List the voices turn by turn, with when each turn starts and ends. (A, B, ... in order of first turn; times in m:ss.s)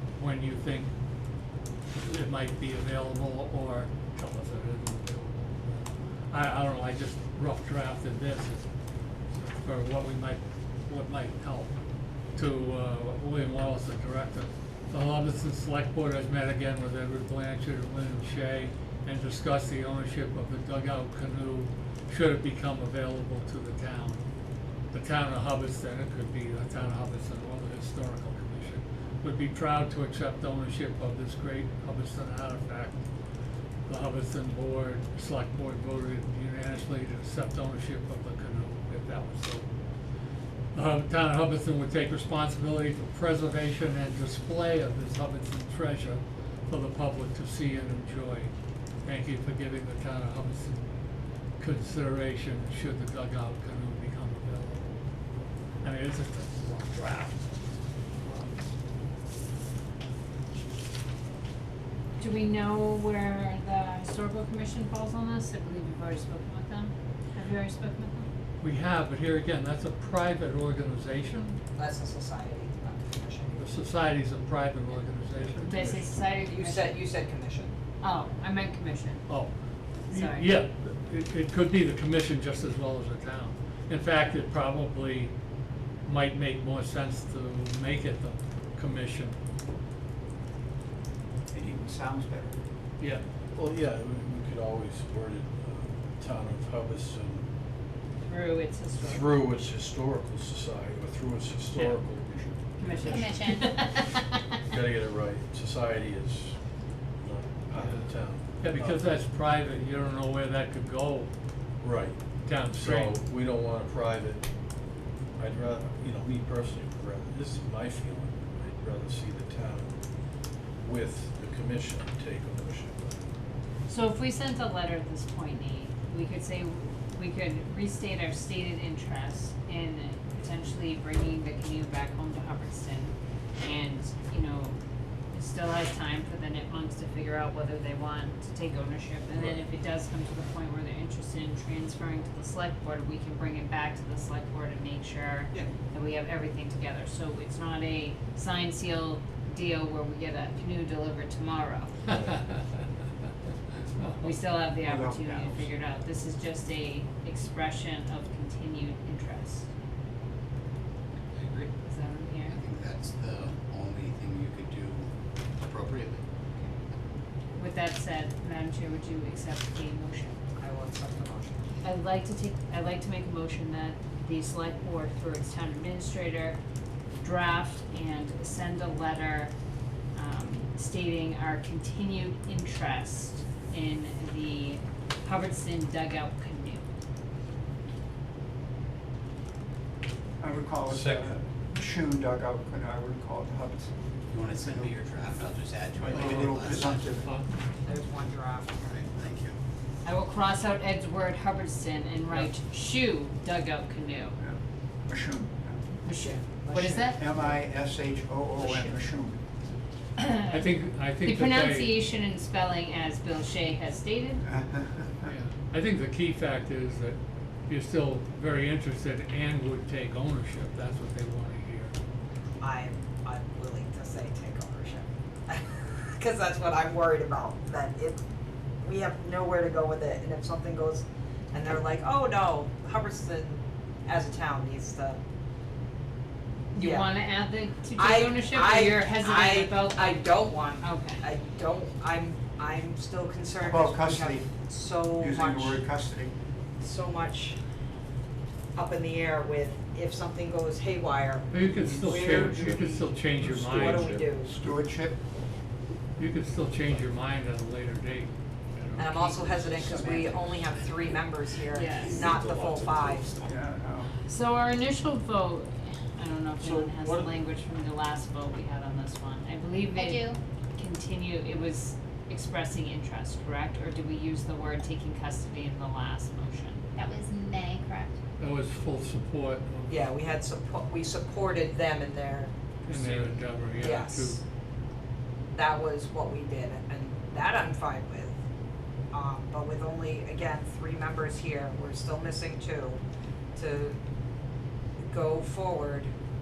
0:00.2-0:00.9 A
0:02.0-0:05.8 A
0:06.3-0:08.6 A
0:09.3-0:11.7 A
0:12.3-0:24.2 A
0:24.9-0:33.0 A
0:33.9-0:39.7 A
0:40.7-0:48.5 A
0:49.0-0:50.9 A
0:51.6-0:54.9 A
0:55.8-0:57.4 A
1:02.2-1:08.3 B
1:08.6-1:11.6 A
1:11.8-1:13.7 C
1:13.6-1:15.9 A
1:15.6-1:17.0 B
1:15.8-1:17.7 C
1:18.0-1:19.2 B
1:19.3-1:19.5 A
1:20.1-1:25.3 A
1:20.1-1:20.5 B
1:26.0-1:29.4 A
1:31.5-1:32.6 D
1:33.5-1:37.4 E
1:38.2-1:39.4 B
1:39.0-1:44.0 E
1:42.8-1:44.4 B
1:43.0-1:43.7 F
1:44.6-1:46.6 E
1:47.2-1:49.1 E
1:47.7-1:51.3 A
1:51.8-1:54.5 E
1:52.4-1:53.1 A
1:55.4-2:00.0 E
2:00.8-2:03.2 E
2:03.9-2:14.8 B
2:15.3-2:32.3 B
2:34.2-2:39.6 B
2:34.8-2:35.7 D
2:41.8-2:42.6 B
2:42.8-2:45.1 G
2:45.7-2:46.2 G
2:47.6-2:50.4 B
2:50.6-2:51.7 C
2:51.8-2:56.6 B
2:57.2-2:59.5 B
3:00.1-3:06.8 B
3:10.4-3:15.0 D
3:10.9-3:11.3 E
3:16.0-3:17.4 D
3:16.0-3:16.9 G
3:17.2-3:17.5 A
3:17.8-3:19.0 C
3:20.0-3:24.4 B
3:24.4-3:25.8 D
3:26.0-3:27.3 B
3:26.0-3:27.6 C
3:26.7-3:29.4 D
3:28.6-3:29.0 B
3:30.2-3:30.7 B
3:30.5-3:32.0 A
3:31.2-3:34.4 B
3:34.4-3:35.3 D
3:35.2-3:37.2 A
3:37.7-3:41.9 A
3:42.6-3:48.2 C
3:48.8-3:55.2 C
3:56.7-4:01.2 B
3:56.8-3:57.1 C
3:57.9-4:05.8 C
4:03.6-4:04.5 D
4:05.1-4:06.3 D
4:06.8-4:07.6 C
4:08.7-4:13.0 C
4:11.5-4:14.2 A
4:12.1-4:12.6 D
4:13.7-4:14.5 C
4:14.4-4:15.2 D
4:16.2-4:19.6 A
4:19.0-4:23.4 C
4:21.7-4:22.3 B
4:22.4-4:23.0 G
4:23.4-4:24.1 D
4:24.3-4:36.8 B
4:26.6-4:27.3 E
4:29.9-4:30.4 F
4:36.9-4:38.2 F
4:38.4-4:40.1 A
4:39.9-4:44.4 C
4:42.9-4:44.4 A
4:45.5-4:48.4 C
4:49.1-4:53.0 C
4:53.6-4:54.0 C
4:55.1-4:56.1 C